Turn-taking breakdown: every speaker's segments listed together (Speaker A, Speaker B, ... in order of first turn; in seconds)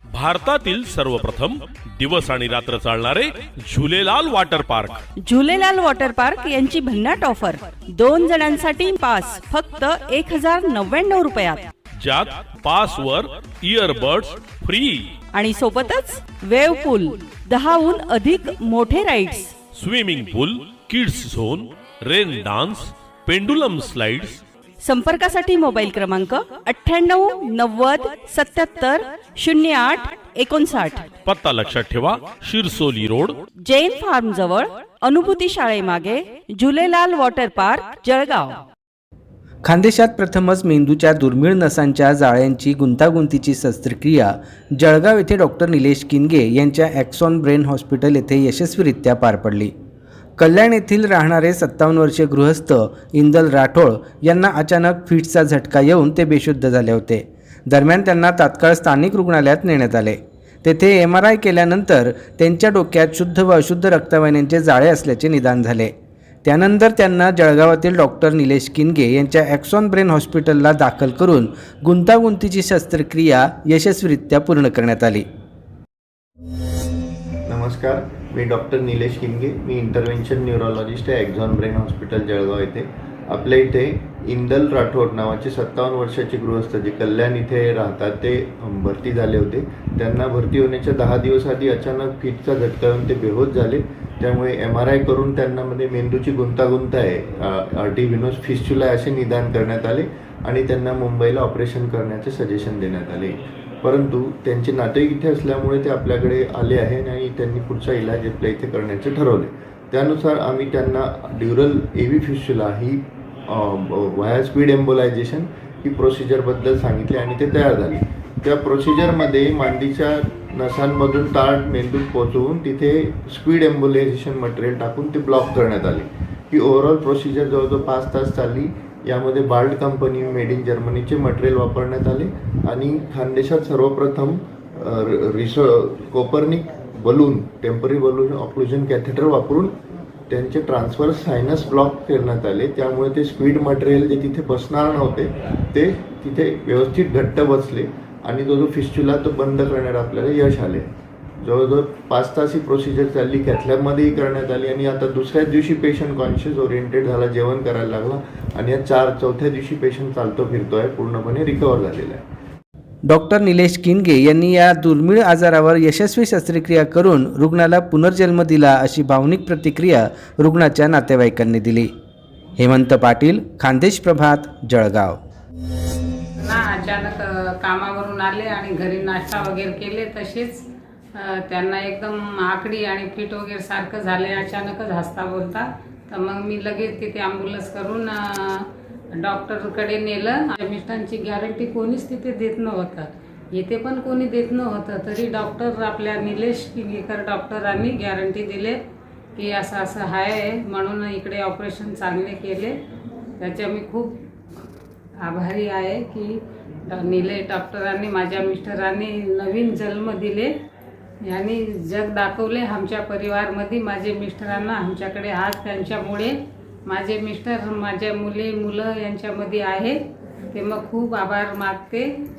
Speaker A: 0.1-5.0, 12.0-15.1, 19.7-24.4, 31.2-33.4
Speaker B: 5.2-11.7, 15.3-19.5, 24.8-31.1, 33.6-38.6
Speaker C: 39.6-49.7, 50.4-65.9, 66.4-75.2, 163.1-171.9, 172.6-175.2
Speaker D: 77.5-139.7, 140.3-150.9, 151.4-162.2
Speaker E: 176.4-180.6, 181.2-188.7, 189.2-198.8, 199.3-202.7, 203.4-204.2, 205.2-206.3, 206.9-210.5, 211.2-216.3, 216.9-219.9, 220.5-222.1